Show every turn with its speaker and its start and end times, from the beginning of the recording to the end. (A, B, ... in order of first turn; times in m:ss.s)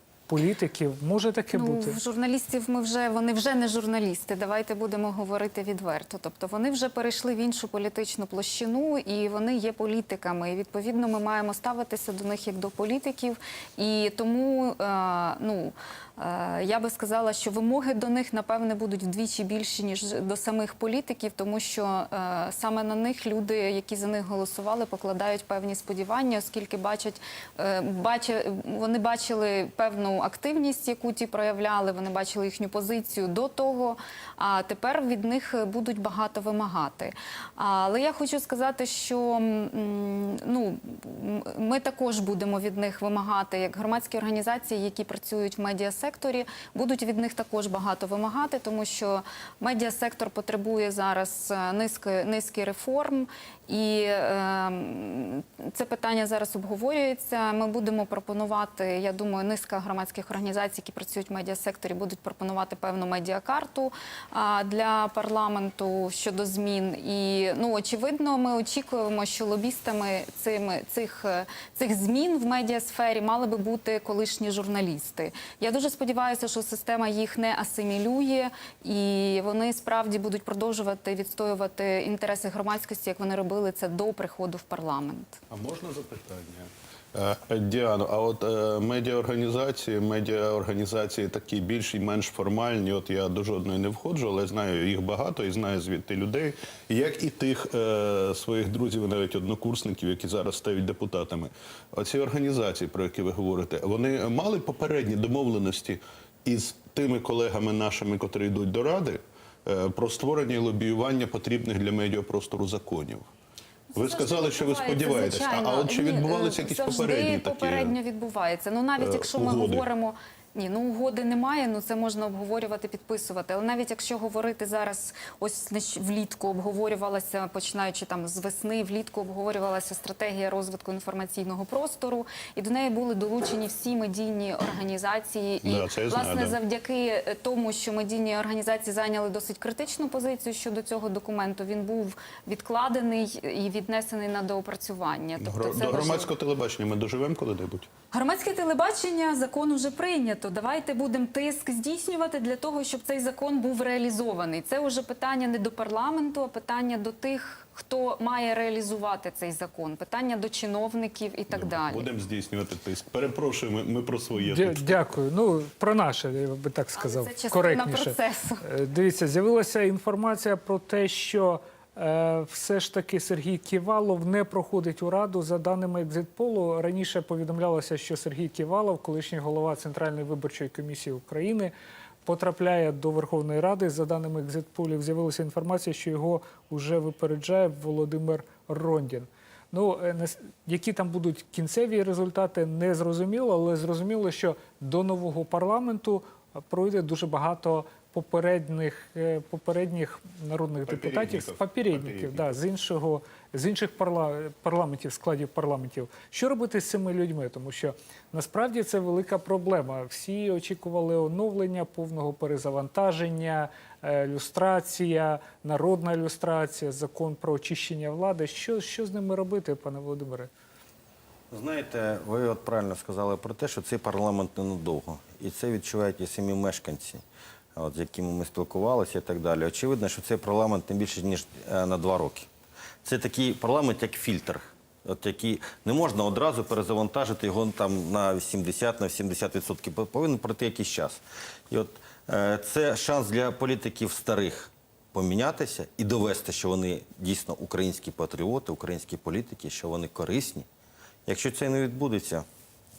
0:00.3-0:02.0 A
0:01.5-1:25.4 B
1:25.5-1:53.3 C
1:53.9-2:26.3 B
1:53.9-1:58.0 C
1:59.0-1:59.9 C
2:15.6-2:16.6 C
2:25.4-2:27.9 C
2:28.1-2:42.1 B
2:41.5-2:45.0 C
2:44.4-3:01.7 A
2:47.0-2:48.6 B
3:02.2-3:40.5 A
3:20.9-3:22.5 C
3:41.5-3:47.2 D
3:47.7-3:52.5 D
3:53.0-4:10.6 D
4:11.3-4:12.4 D